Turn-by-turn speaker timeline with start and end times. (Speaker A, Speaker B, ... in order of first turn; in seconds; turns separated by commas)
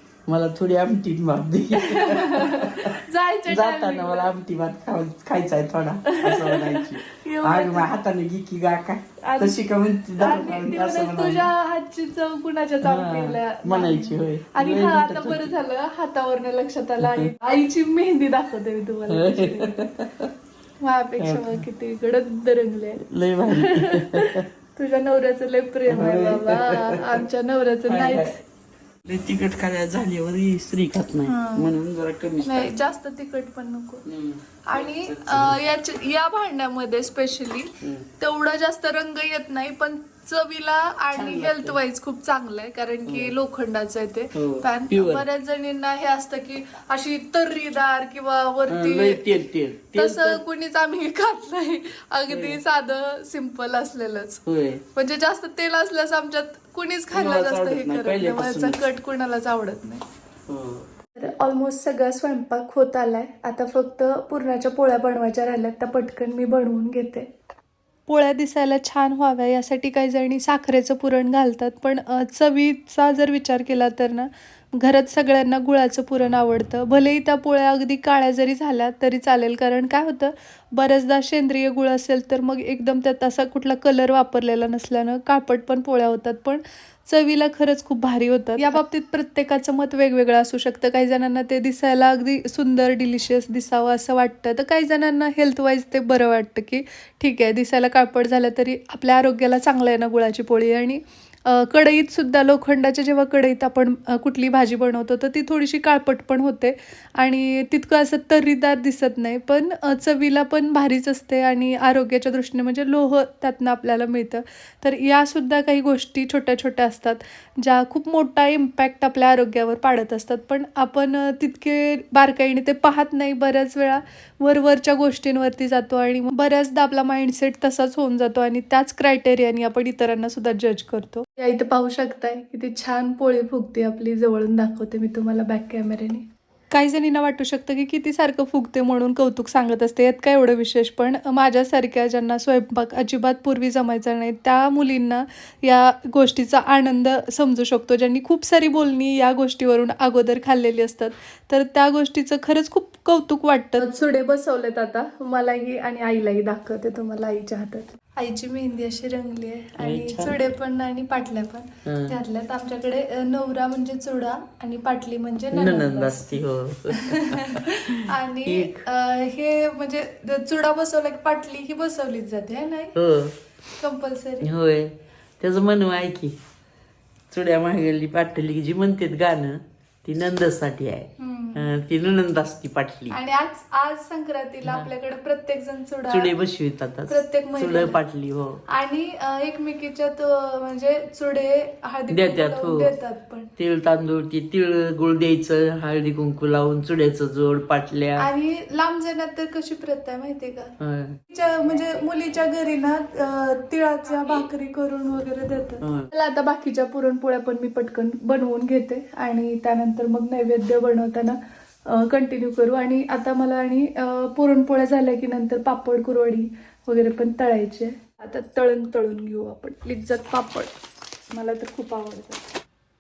Speaker A: 0.3-11.5, Speaker B: 1.8-4.3, Speaker B: 6.1-7.9, Speaker B: 9.2-9.6, Speaker B: 10.1-19.8, Speaker A: 12.8-15.5, Speaker A: 17.0-17.3, Speaker A: 19.1-20.3, Speaker B: 20.8-28.3, Speaker A: 21.2-21.6, Speaker A: 23.0-24.4, Speaker A: 25.9-27.2, Speaker A: 27.9-28.3, Speaker A: 29.0-32.8, Speaker B: 31.2-31.7, Speaker B: 32.4-34.0, Speaker A: 34.0-35.6, Speaker B: 34.6-49.3, Speaker A: 41.1-41.8, Speaker A: 43.1-43.3, Speaker A: 44.4-45.2, Speaker A: 48.7-50.4, Speaker B: 49.9-60.0, Speaker A: 52.3-52.6, Speaker A: 54.5-54.8, Speaker A: 57.1-58.8, Speaker A: 60.5-60.9, Speaker B: 61.1-67.3, Speaker B: 68.1-166.4, Speaker A: 159.8-160.3, Speaker A: 161.8-162.2, Speaker A: 165.5-167.8, Speaker B: 166.9-173.0, Speaker A: 168.4-168.8, Speaker A: 172.9-173.3, Speaker B: 173.8-174.5, Speaker A: 174.4-176.4, Speaker A: 177.3-183.2, Speaker B: 181.2-181.8, Speaker B: 183.1-186.3, Speaker A: 186.1-188.6, Speaker B: 187.1-188.0, Speaker B: 188.7-193.5, Speaker A: 192.1-192.9, Speaker A: 193.6-198.3, Speaker B: 198.2-200.7, Speaker A: 200.8-201.2, Speaker B: 201.3-220.7, Speaker A: 205.8-206.1, Speaker B: 221.3-222.4